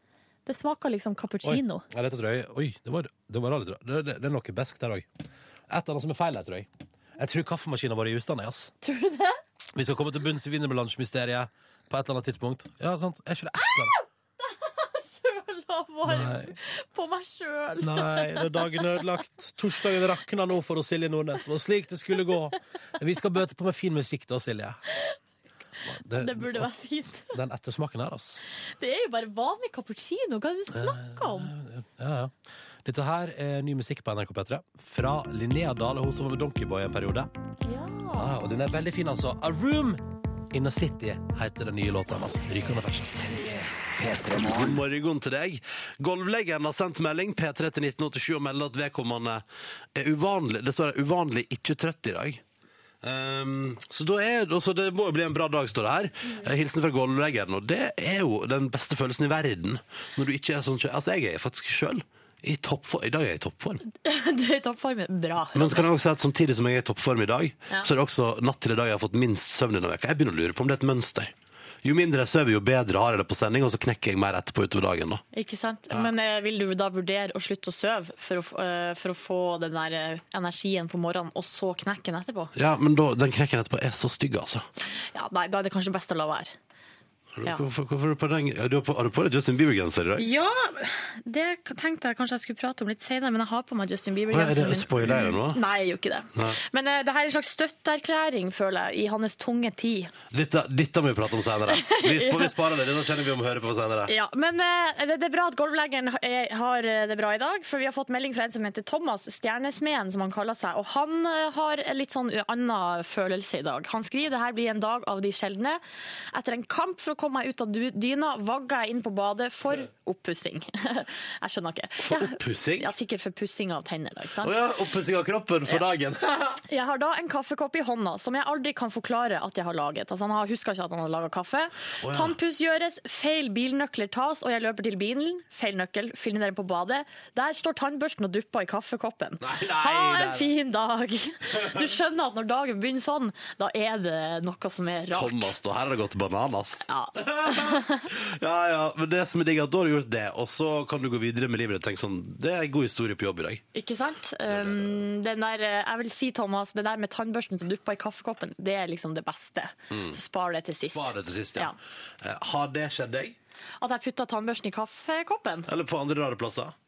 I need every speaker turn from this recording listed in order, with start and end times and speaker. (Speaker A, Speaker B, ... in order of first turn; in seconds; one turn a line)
Speaker A: 0.5-1.9
Speaker B: 1.4-5.1
Speaker B: 5.7-6.7
Speaker B: 7.2-8.7
Speaker A: 8.8-9.4
Speaker B: 9.7-13.9
Speaker A: 14.4-19.0
Speaker B: 16.1-16.5
Speaker B: 17.8-24.8
Speaker B: 25.9-26.7
Speaker A: 26.2-27.4
Speaker B: 27.3-28.4
Speaker A: 28.8-31.5
Speaker B: 30.7-32.3
Speaker B: 32.9-37.3
Speaker A: 37.6-38.3
Speaker B: 38.1-49.4
Speaker B: 50.0-52.4
Speaker B: 53.0-63.8
Speaker A: 64.0-65.9
Speaker B: 65.5-71.3
Speaker B: 71.8-75.2
Speaker A: 75.3-82.5
Speaker B: 82.5-84.7
Speaker A: 85.2-86.5
Speaker B: 87.3-90.3
Speaker A: 90.2-100.1
Speaker B: 94.3-95.6
Speaker B: 100.3-104.1
Speaker A: 101.7-102.5
Speaker A: 104.1-115.8
Speaker A: 116.3-124.5
Speaker B: 122.0-122.9
Speaker B: 124.4-126.6
Speaker A: 126.7-145.5
Speaker B: 132.0-132.4
Speaker B: 139.4-140.5
Speaker B: 145.1-153.6
Speaker A: 146.9-148.0
Speaker A: 153.7-161.8
Speaker B: 154.5-155.0
Speaker B: 159.9-160.2
Speaker B: 160.8-163.4
Speaker A: 163.8-165.7
Speaker B: 165.7-166.8